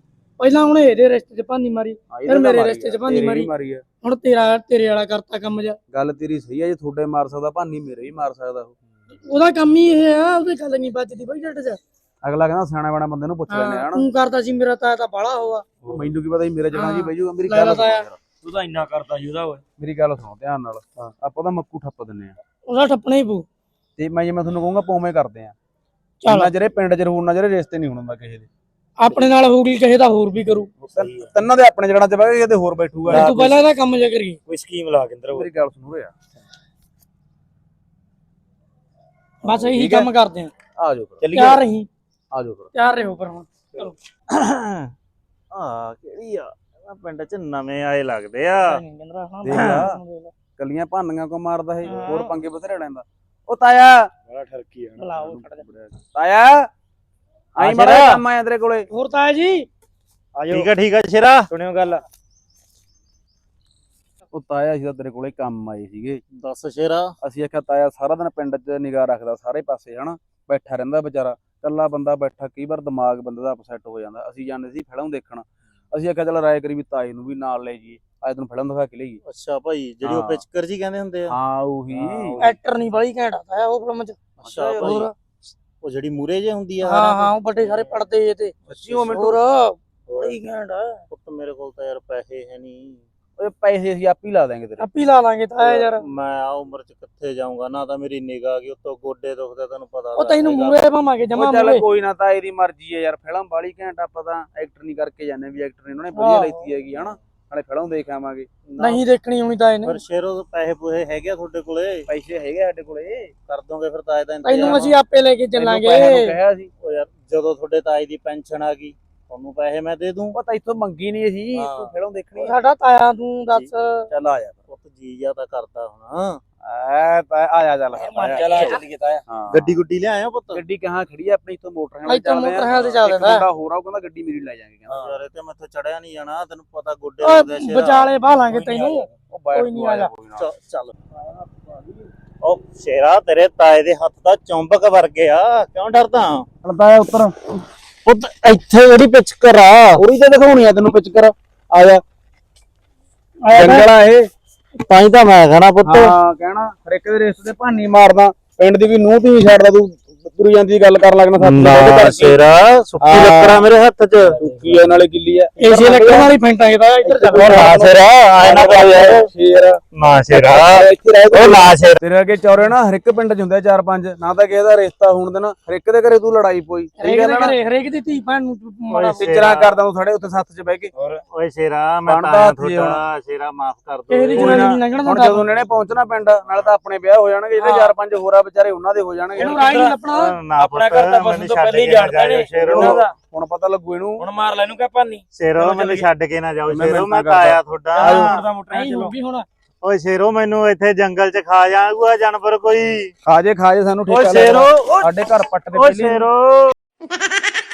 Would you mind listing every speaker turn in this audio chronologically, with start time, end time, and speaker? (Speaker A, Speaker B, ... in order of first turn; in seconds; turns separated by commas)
Speaker A: 0.4-3.5, Speaker B: 2.1-3.8, Speaker A: 4.0-5.8, Speaker B: 5.9-8.7, Speaker A: 9.2-11.8, Speaker B: 12.2-14.1, Speaker A: 13.5-15.7, Speaker C: 15.8-16.1, Speaker B: 15.9-18.2, Speaker A: 16.7-18.1, Speaker C: 18.4-19.6, Speaker B: 19.8-22.4, Speaker A: 22.7-23.5, Speaker B: 24.0-25.5, Speaker A: 26.2-26.5, Speaker B: 26.3-28.5, Speaker A: 29.0-30.7, Speaker B: 30.8-33.4, Speaker C: 31.0-31.3, Speaker C: 33.0-33.5, Speaker A: 33.1-34.4, Speaker C: 34.5-35.5, Speaker B: 35.3-36.1, Speaker B: 39.4-40.1, Speaker A: 39.4-40.5, Speaker B: 40.8-41.2, Speaker C: 41.2-41.6, Speaker A: 41.3-41.9, Speaker B: 42.3-42.7, Speaker A: 42.7-44.0, Speaker D: 44.3-44.9, Speaker D: 45.5-48.8, Speaker A: 48.6-50.3, Speaker B: 49.4-50.0, Speaker D: 49.5-49.9, Speaker B: 50.6-54.1, Speaker A: 51.8-52.3, Speaker C: 54.3-55.1, Speaker A: 55.0-55.6, Speaker B: 55.2-56.7, Speaker B: 57.6-58.9, Speaker D: 57.6-58.2, Speaker A: 58.9-59.7, Speaker C: 60.4-60.7, Speaker D: 60.5-61.5, Speaker C: 61.5-62.0, Speaker B: 64.3-66.2, Speaker D: 66.4-67.1, Speaker B: 67.2-79.2, Speaker D: 79.3-81.4, Speaker B: 80.0-80.4, Speaker B: 81.3-82.4, Speaker D: 81.9-82.6, Speaker A: 82.4-84.2, Speaker D: 84.4-85.1, Speaker B: 84.4-85.0, Speaker A: 84.8-85.1, Speaker D: 85.8-88.0, Speaker A: 86.8-88.5, Speaker B: 88.7-89.4, Speaker D: 88.7-89.1, Speaker A: 89.1-91.0, Speaker D: 90.1-90.4, Speaker D: 91.1-93.0, Speaker B: 93.4-94.9, Speaker A: 94.8-96.0, Speaker D: 95.6-100.8, Speaker A: 100.2-101.9, Speaker B: 101.3-108.5, Speaker A: 106.1-106.7, Speaker D: 108.7-109.0, Speaker A: 108.8-110.0, Speaker D: 109.8-112.1, Speaker B: 112.1-113.3, Speaker D: 113.5-115.0, Speaker A: 114.4-116.3, Speaker B: 115.6-116.7, Speaker D: 116.8-120.4, Speaker B: 120.3-122.6, Speaker D: 121.5-121.9, Speaker A: 122.4-124.1, Speaker B: 124.1-124.6, Speaker D: 124.7-126.4, Speaker B: 126.6-129.8, Speaker C: 128.2-129.2, Speaker A: 128.2-128.8, Speaker D: 129.5-130.6, Speaker B: 130.5-135.1, Speaker A: 132.1-133.5, Speaker D: 134.9-138.1, Speaker A: 137.2-140.1, Speaker B: 138.5-140.5, Speaker D: 140.4-140.9, Speaker B: 141.2-142.1, Speaker D: 142.4-146.4, Speaker B: 146.6-147.6, Speaker D: 148.1-150.0, Speaker B: 150.0-152.0, Speaker A: 153.4-153.9, Speaker B: 153.5-154.3, Speaker D: 154.8-156.1, Speaker B: 155.8-162.5, Speaker D: 161.4-164.4, Speaker B: 163.0-163.7, Speaker C: 164.4-164.8, Speaker B: 164.4-166.3, Speaker A: 165.6-167.7, Speaker B: 167.0-169.8, Speaker D: 167.4-169.2, Speaker D: 169.9-172.0, Speaker B: 170.3-177.6, Speaker A: 177.0-179.3, Speaker D: 178.9-179.8, Speaker B: 179.2-180.9, Speaker C: 180.9-181.2, Speaker D: 181.3-184.8, Speaker B: 182.1-183.0, Speaker A: 184.1-185.5, Speaker B: 184.3-189.6, Speaker A: 187.6-187.9, Speaker A: 189.3-190.4, Speaker C: 189.4-190.0, Speaker D: 190.1-193.0, Speaker C: 190.6-193.1, Speaker B: 192.6-194.3, Speaker C: 194.2-196.1, Speaker D: 195.3-198.5, Speaker B: 196.7-198.3, Speaker C: 197.9-199.1, Speaker A: 198.7-199.5, Speaker D: 199.8-203.1, Speaker B: 203.2-206.3, Speaker C: 204.1-205.2, Speaker D: 204.3-204.9, Speaker D: 205.7-206.7